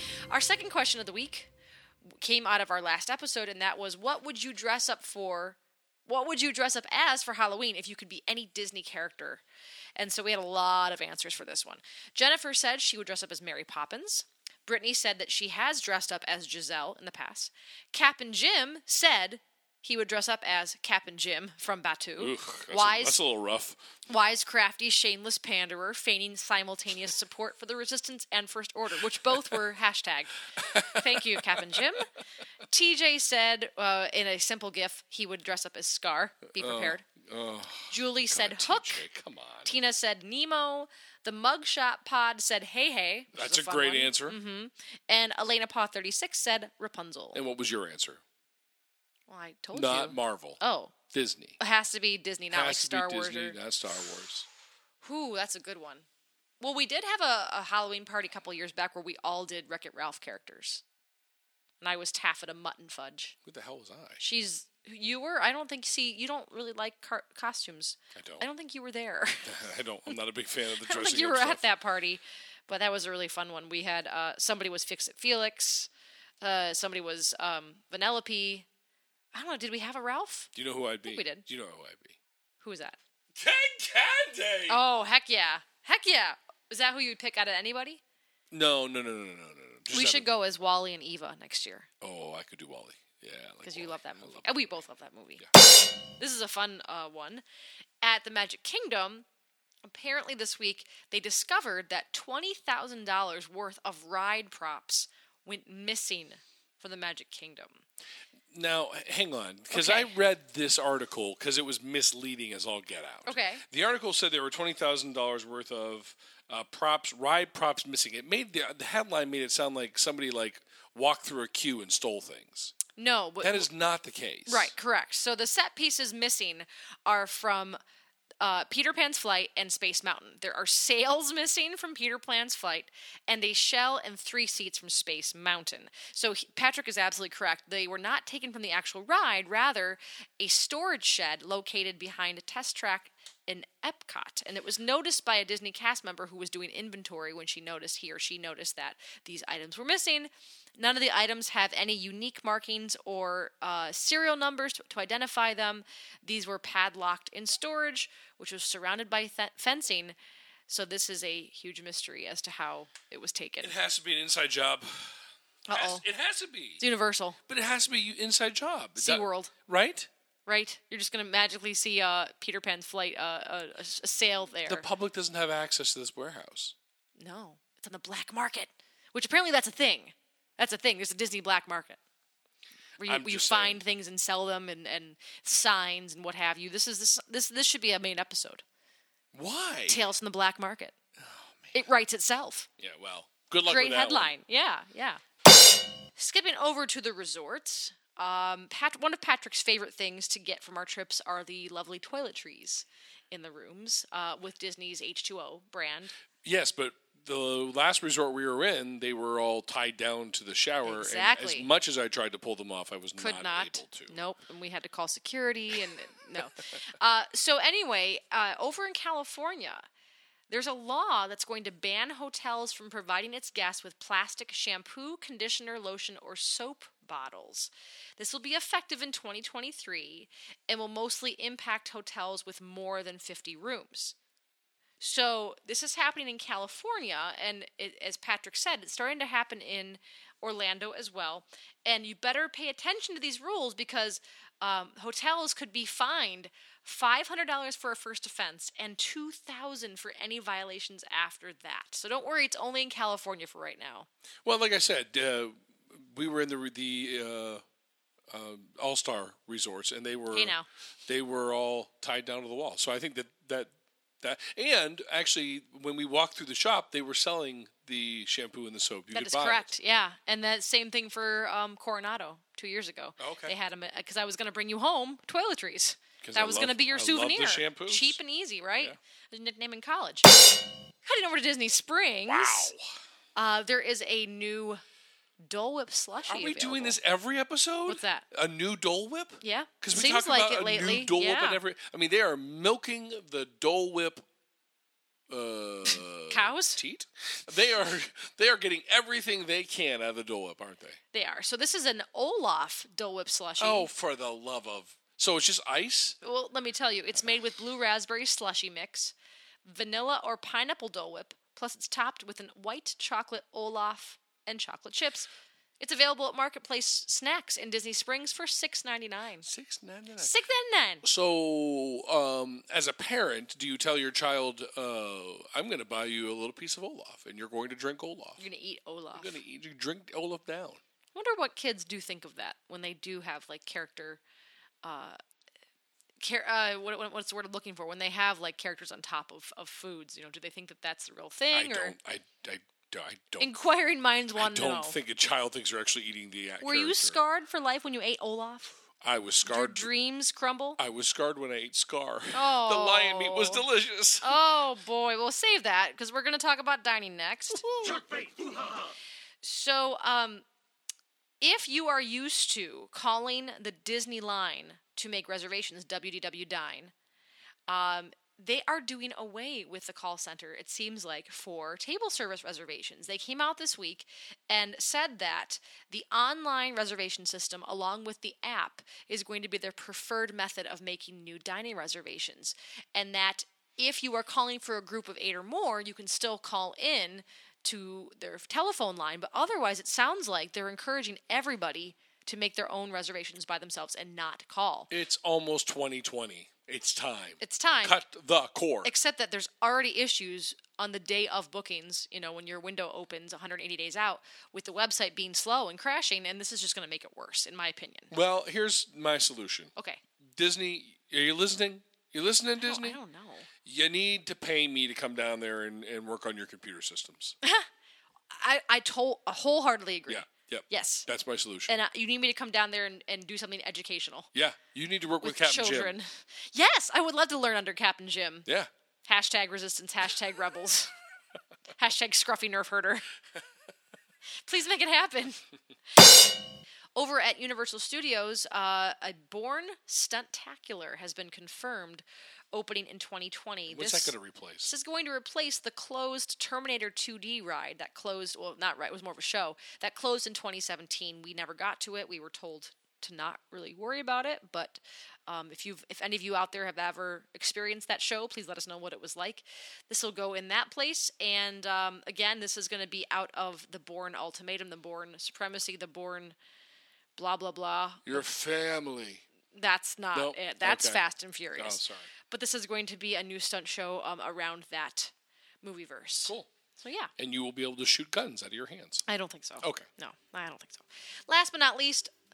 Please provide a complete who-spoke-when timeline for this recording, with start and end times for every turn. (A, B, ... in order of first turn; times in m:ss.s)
0:00.3-0:01.5 A
0:02.2-0:09.4 A
0:10.0-0:23.2 A
0:22.2-0:23.8 B
0:24.1-0:32.1 A
0:30.6-0:31.8 B
0:32.7-0:37.0 A
0:36.6-0:39.7 B
0:37.9-0:39.0 A
0:39.6-0:47.4 A
0:43.3-0:44.4 B
0:47.3-0:48.2 B
0:49.3-0:50.9 A
0:49.7-0:50.6 B
0:51.1-0:51.6 B
0:51.6-0:53.6 A
0:52.5-0:54.4 B
0:55.0-0:56.0 A
0:56.6-1:00.8 A
1:01.8-1:03.3 A
1:03.4-1:04.2 B
1:04.2-1:09.6 A
1:08.1-1:08.4 B
1:09.4-1:11.6 B
1:10.8-1:15.9 A
1:16.4-1:18.6 A
1:19.3-1:20.5 A
1:20.5-1:22.2 B
1:21.0-1:21.5 A
1:22.6-1:23.0 A
1:23.3-1:24.8 B
1:24.7-1:28.0 A
1:28.5-1:30.3 B
1:29.9-1:31.9 A
1:32.0-1:34.6 B
1:33.6-1:35.5 A
1:36.2-1:37.4 A
1:38.0-1:39.2 A
1:39.8-1:47.8 A
1:48.5-2:02.7 B
1:49.7-1:50.1 A
1:53.2-1:53.6 A
2:03.0-2:03.7 A
2:03.4-2:04.7 B
2:04.5-2:07.8 A
2:08.4-2:40.2 A
2:40.7-2:43.7 A
2:43.6-2:45.1 B
2:45.7-2:46.0 A
2:45.7-2:46.8 B
2:46.8-2:47.4 A
2:47.5-2:50.1 B
2:49.0-2:49.5 A
2:50.4-2:54.9 A
2:54.7-2:56.7 B
2:57.2-3:02.0 A
3:03.0-3:08.6 A
3:03.0-3:03.8 B
3:09.3-3:10.1 B
3:09.9-3:10.9 A
3:11.2-3:11.7 B
3:11.7-3:12.7 A
3:12.8-3:14.3 B
3:13.6-3:15.2 A
3:16.2-3:26.1 A
3:26.4-3:34.1 B
3:30.8-3:31.7 A
3:33.2-3:39.8 A
3:40.5-3:54.2 A
3:55.0-4:14.1 A
4:14.4-4:17.6 B
4:18.3-4:20.5 B
4:20.3-4:20.7 A
4:21.1-4:29.7 B
4:29.1-4:40.4 A
4:33.2-4:33.5 B
4:36.2-4:38.2 B
4:41.0-4:42.7 A
4:42.3-4:42.8 B
4:43.4-4:44.8 A
4:45.4-4:47.0 A
4:46.2-4:54.2 B
4:47.9-4:48.3 A
4:49.4-4:51.6 A
4:55.3-5:01.0 B
4:55.9-4:56.8 A
5:01.1-5:03.9 A
5:03.6-5:06.2 B
5:06.2-5:15.3 A
5:15.8-5:19.5 A
5:19.4-5:20.3 B
5:20.2-5:21.0 A
5:21.0-5:28.4 B
5:28.4-5:29.4 A
5:29.1-5:30.8 B
5:31.1-5:34.2 A
5:34.8-5:35.2 A
5:36.2-5:42.0 A
5:41.5-5:43.5 B
5:43.4-5:45.0 A
5:44.4-5:47.2 B
5:46.6-5:48.8 A
5:49.0-5:49.9 B
5:49.4-5:50.8 A
5:50.8-5:54.4 B
5:52.3-5:53.6 A
5:54.2-5:58.0 A
5:57.6-5:58.6 B
5:59.4-6:00.4 A
6:01.4-6:06.9 A
6:07.7-6:34.9 A
6:34.9-6:38.9 B
6:37.4-6:38.0 A
6:38.8-6:48.1 A
6:48.1-6:49.7 B
6:49.8-6:50.0 A
6:50.4-6:53.0 B
6:52.6-6:53.5 A
6:53.6-6:57.3 B
6:58.3-7:01.1 A
7:00.1-7:01.8 B
7:01.7-7:04.3 A
7:04.3-7:06.0 B
7:05.2-7:08.5 A
7:09.0-7:10.9 A
7:11.8-7:13.0 A
7:14.4-7:15.4 A
7:17.0-7:46.4 A
7:23.7-7:24.7 B
7:47.2-7:48.3 A
7:48.0-7:49.2 B
7:49.5-7:57.1 A
7:50.1-7:51.0 B
7:51.6-7:52.1 B
7:57.2-7:59.0 B
7:59.1-8:02.1 A
7:59.6-7:59.9 B